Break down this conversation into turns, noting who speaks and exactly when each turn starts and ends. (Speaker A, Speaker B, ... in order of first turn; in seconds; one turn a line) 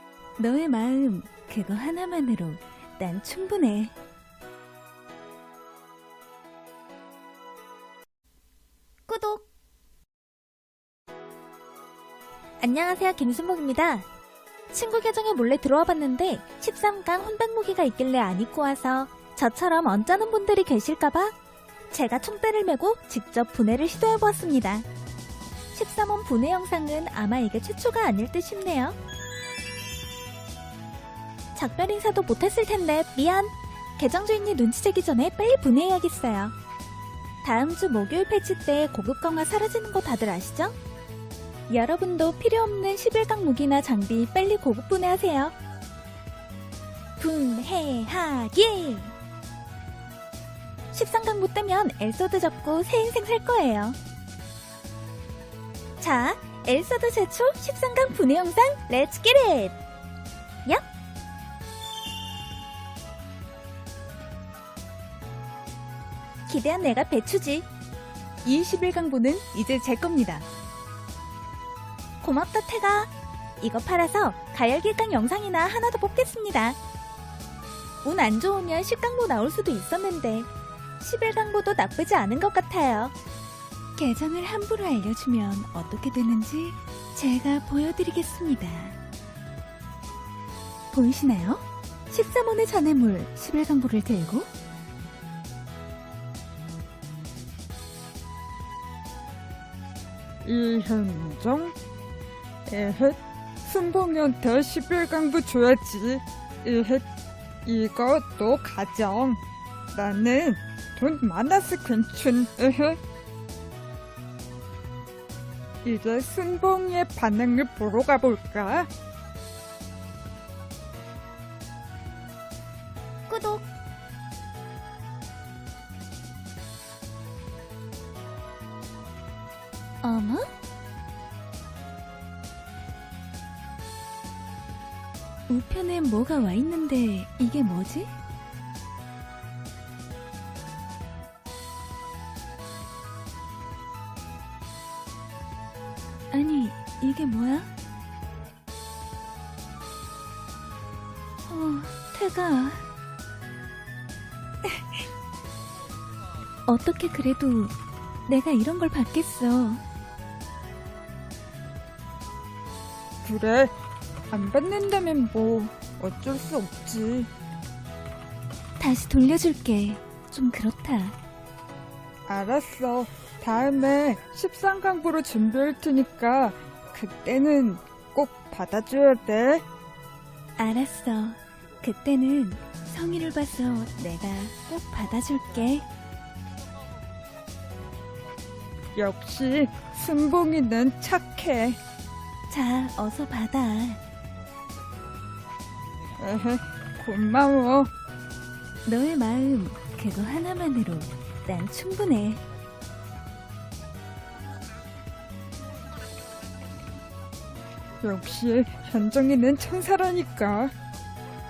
Speaker A: 0.4-3.9
Speaker A: 9.1-9.4
Speaker A: 12.6-14.1
Speaker A: 14.7-21.4
Speaker A: 21.9-24.9
Speaker A: 25.7-29.0
Speaker A: 31.5-36.5
Speaker A: 37.4-40.8
Speaker A: 41.7-45.5
Speaker A: 47.2-49.1
Speaker A: 50.9-54.0
Speaker A: 56.0-59.8
Speaker A: 66.5-67.7
Speaker A: 68.4-70.5
Speaker A: 72.2-76.8
Speaker A: 78.0-80.5
Speaker A: 81.0-83.1
Speaker A: 84.0-89.0
Speaker A: 90.9-94.5
Speaker B: 100.4-101.7
Speaker B: 102.7-107.0
Speaker B: 107.6-109.4
Speaker B: 109.9-113.0
Speaker B: 115.8-118.9
Speaker A: 123.3-123.6
Speaker A: 130.0-130.5
Speaker A: 135.5-138.1
Speaker A: 146.3-147.7
Speaker A: 151.5-152.9
Speaker A: 156.7-157.7
Speaker A: 158.3-159.8
Speaker B: 163.2-163.7
Speaker B: 164.3-167.3
Speaker A: 168.8-171.2
Speaker B: 172.3-179.6
Speaker A: 180.6-185.9
Speaker B: 188.9-191.8
Speaker A: 192.5-194.0
Speaker B: 196.2-197.9
Speaker A: 198.8-202.4
Speaker B: 208.0-210.7